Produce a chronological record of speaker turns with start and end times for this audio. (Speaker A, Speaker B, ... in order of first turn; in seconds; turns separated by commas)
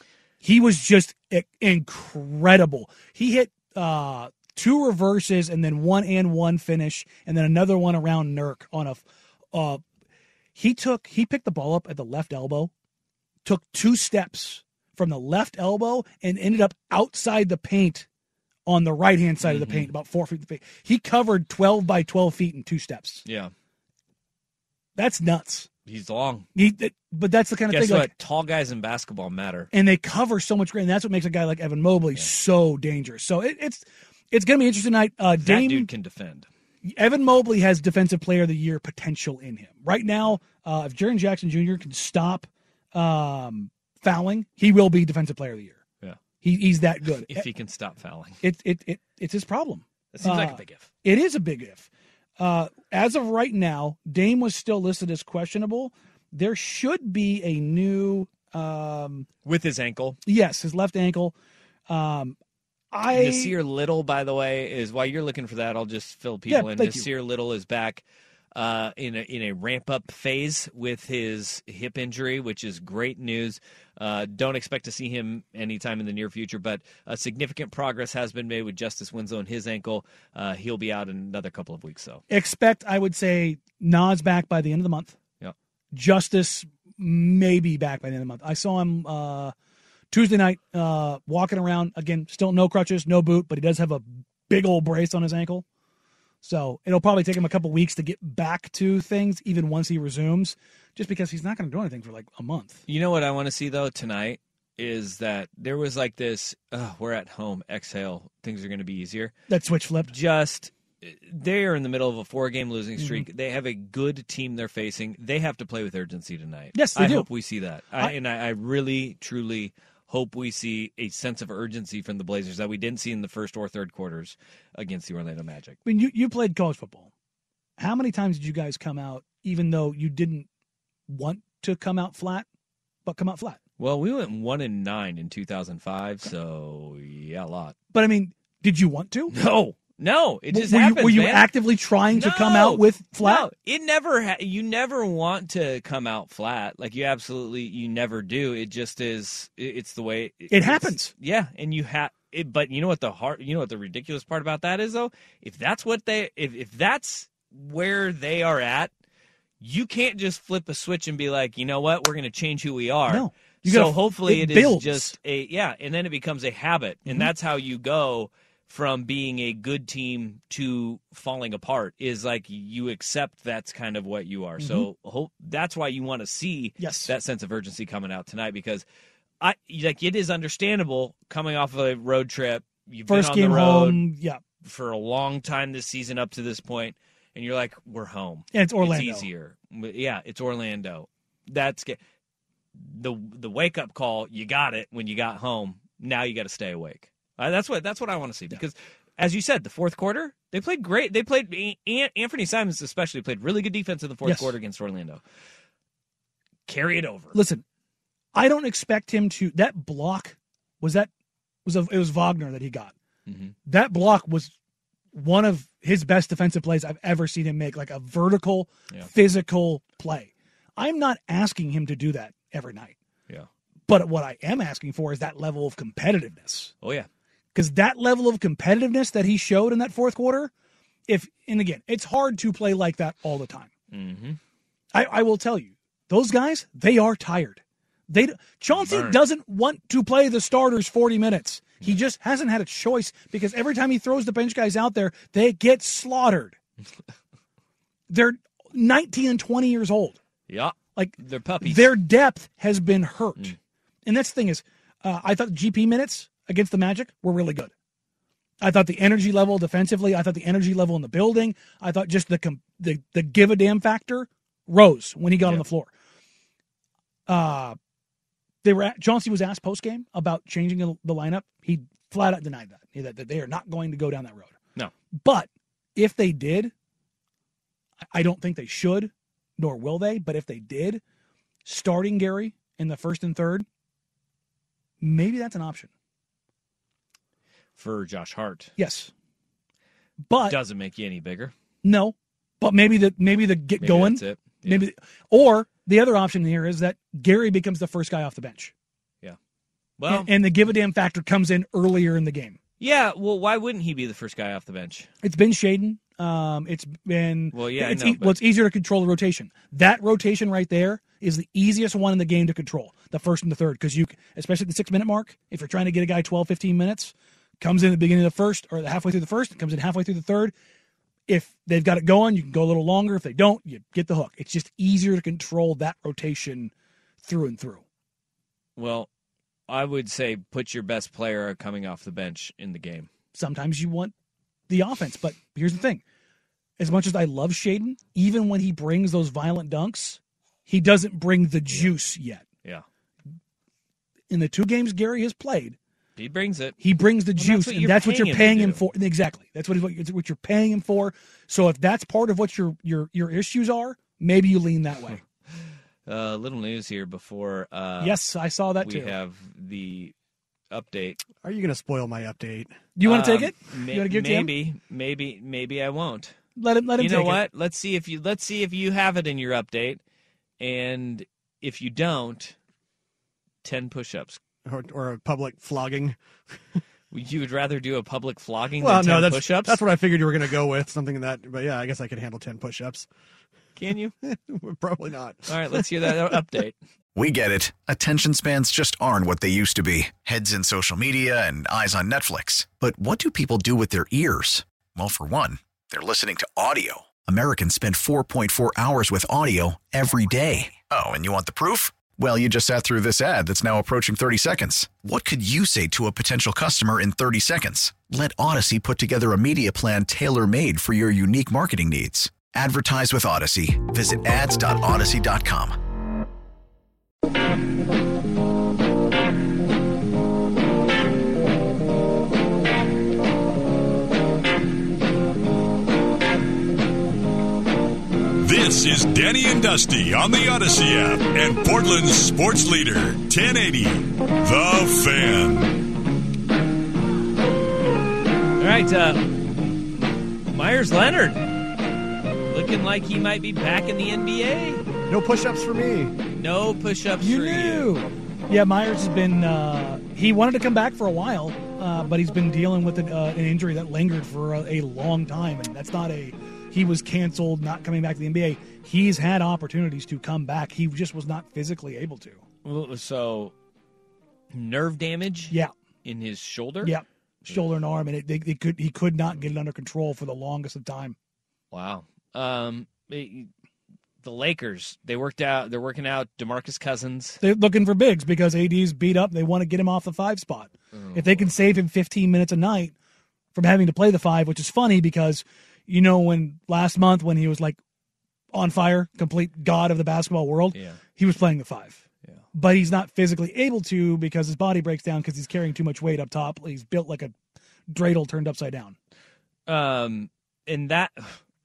Speaker A: 0.4-9.8, Speaker A: 10.6-12.7, Speaker A: 13.4-18.1, Speaker A: 18.7-23.2, Speaker B: 19.4-19.9, Speaker B: 23.2-23.5, Speaker A: 25.0-25.7, Speaker B: 25.9-26.5, Speaker A: 26.6-28.1, Speaker B: 27.7-29.7, Speaker A: 29.7-35.9, Speaker B: 35.4-36.5, Speaker A: 36.8-45.8, Speaker A: 46.4-47.5, Speaker B: 47.1-48.4, Speaker A: 48.4-51.9, Speaker B: 50.1-50.9, Speaker A: 52.4-59.3, Speaker B: 59.5-60.2, Speaker A: 60.3-61.3, Speaker A: 61.9-62.4, Speaker A: 62.9-63.5, Speaker B: 63.1-68.0, Speaker A: 66.5-67.1, Speaker B: 68.5-82.2, Speaker A: 82.3-85.2, Speaker A: 85.9-89.5, Speaker A: 90.1-95.7, Speaker A: 96.4-102.8, Speaker B: 102.9-109.3, Speaker A: 109.5-110.1, Speaker B: 110.1-125.8, Speaker A: 113.0-113.3, Speaker A: 116.7-117.3, Speaker A: 125.8-127.1, Speaker A: 127.8-130.5, Speaker A: 131.1-132.5, Speaker A: 133.1-133.6, Speaker B: 133.8-137.8, Speaker A: 137.9-139.3, Speaker B: 139.3-141.5, Speaker A: 140.5-143.5, Speaker B: 142.1-158.9, Speaker A: 150.5-151.1, Speaker B: 159.6-178.8, Speaker A: 163.1-165.2, Speaker A: 174.6-174.9, Speaker A: 176.8-177.1, Speaker B: 179.4-184.0, Speaker A: 183.1-184.4, Speaker B: 184.6-192.0, Speaker A: 188.5-189.3, Speaker B: 192.8-205.2, Speaker A: 204.2-204.6, Speaker B: 206.7-207.4, Speaker A: 207.3-207.6, Speaker A: 208.3-211.1, Speaker A: 211.7-212.9, Speaker B: 213.3-213.5, Speaker A: 213.7-214.5, Speaker A: 215.1-223.0, Speaker A: 223.9-226.7, Speaker B: 226.8-227.1, Speaker A: 227.5-230.5, Speaker A: 231.1-233.7, Speaker B: 233.9-234.4, Speaker A: 234.9-246.6, Speaker B: 238.7-239.2, Speaker A: 248.1-250.2, Speaker B: 250.5-251.9, Speaker A: 250.9-253.6, Speaker A: 254.1-257.7, Speaker A: 258.6-265.9, Speaker A: 267.3-267.8, Speaker A: 268.6-274.5, Speaker A: 275.2-276.7, Speaker A: 278.1-281.0, Speaker A: 281.6-283.6, Speaker A: 285.0-285.9, Speaker B: 287.8-288.7, Speaker A: 288.8-289.1, Speaker A: 290.3-290.6, Speaker B: 290.4-291.5, Speaker A: 291.8-298.7, Speaker B: 293.8-294.9, Speaker B: 300.0-300.3, Speaker A: 300.1-302.6, Speaker B: 302.8-305.1, Speaker A: 305.2-320.5, Speaker B: 307.5-308.4, Speaker A: 321.3-326.7, Speaker A: 327.2-327.8, Speaker B: 328.8-329.1, Speaker B: 329.7-333.1, Speaker A: 333.4-334.1, Speaker A: 334.7-336.0, Speaker A: 336.8-342.4, Speaker A: 344.3-345.8, Speaker B: 346.2-346.8, Speaker A: 346.8-355.2, Speaker B: 347.4-348.8, Speaker B: 356.1-358.2, Speaker A: 358.0-359.2, Speaker B: 358.8-360.1, Speaker B: 360.7-361.2, Speaker C: 361.4-362.8, Speaker A: 363.0-364.5, Speaker B: 363.0-366.4, Speaker A: 366.6-367.4, Speaker B: 367.0-370.0, Speaker B: 370.6-372.6, Speaker B: 373.6-374.4, Speaker C: 374.6-376.2, Speaker B: 377.1-379.8, Speaker C: 378.8-383.1, Speaker B: 383.8-384.1, Speaker C: 384.2-386.1, Speaker B: 385.5-386.8, Speaker D: 387.1-415.8, Speaker E: 428.4-435.8, Speaker B: 438.6-439.4, Speaker B: 440.5-441.5, Speaker B: 442.5-444.8, Speaker C: 445.1-446.1, Speaker B: 446.3-447.9, Speaker A: 447.2-462.4, Speaker B: 462.6-463.6, Speaker B: 464.5-467.6, Speaker A: 466.8-471.2, Speaker B: 471.7-473.5, Speaker B: 474.2-477.4, Speaker A: 477.4-482.9, Speaker B: 480.9-481.5, Speaker A: 483.5-487.8, Speaker A: 488.5-492.0, Speaker B: 490.7-491.0, Speaker A: 492.5-497.3, Speaker A: 497.9-499.0, Speaker B: 499.7-501.4